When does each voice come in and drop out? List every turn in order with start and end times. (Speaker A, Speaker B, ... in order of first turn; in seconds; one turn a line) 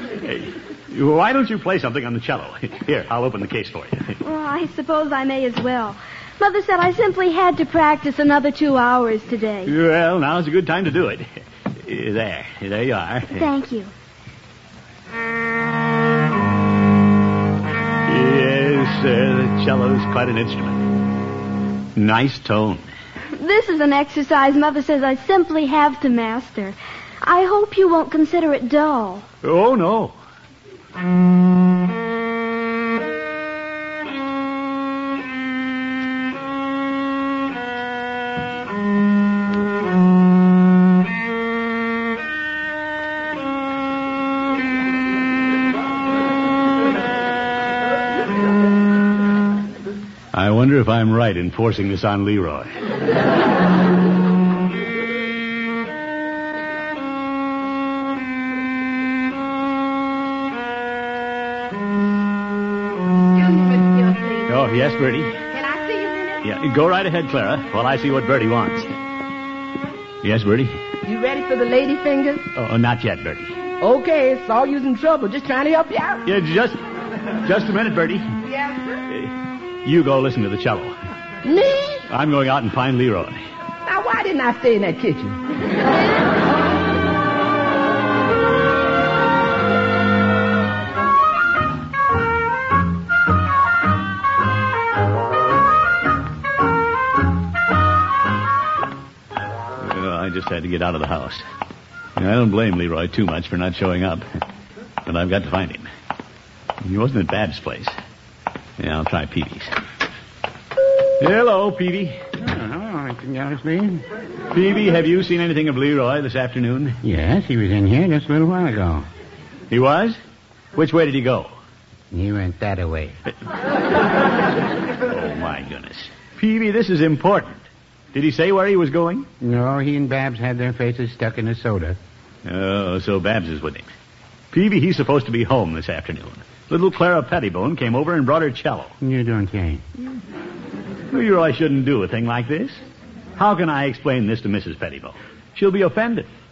Speaker A: 0.2-4.2
Speaker B: 4.2-9.7
Speaker A: 9.7-11.3
Speaker A: 11.8-13.5
Speaker B: 13.3-13.9
Speaker A: 18.1-20.9
Speaker A: 22.0-22.9
Speaker B: 23.4-29.3
Speaker A: 29.4-30.1
Speaker A: 50.3-52.7
Speaker C: 63.3-64.5
Speaker A: 64.5-65.4
Speaker C: 65.5-66.5
Speaker A: 66.4-68.9
Speaker A: 70.2-70.8
Speaker C: 71.0-72.5
Speaker A: 72.5-73.6
Speaker C: 73.8-76.2
Speaker A: 76.3-76.8
Speaker A: 77.4-78.3
Speaker C: 78.4-79.0
Speaker A: 79.1-80.9
Speaker C: 81.5-82.1
Speaker A: 82.1-83.4
Speaker C: 83.8-85.4
Speaker A: 99.8-101.4
Speaker A: 102.2-104.2
Speaker A: 105.1-105.9
Speaker A: 106.8-108.0
Speaker A: 108.8-109.7
Speaker A: 111.2-112.2
Speaker D: 112.4-114.0
Speaker A: 114.5-117.0
Speaker D: 117.0-119.1
Speaker A: 119.7-120.2
Speaker A: 120.8-121.5
Speaker D: 122.1-123.2
Speaker A: 125.1-129.3
Speaker D: 129.4-132.0
Speaker A: 132.4-133.9
Speaker A: 134.5-138.9
Speaker D: 139.0-139.8
Speaker A: 141.1-142.8
Speaker A: 143.4-146.3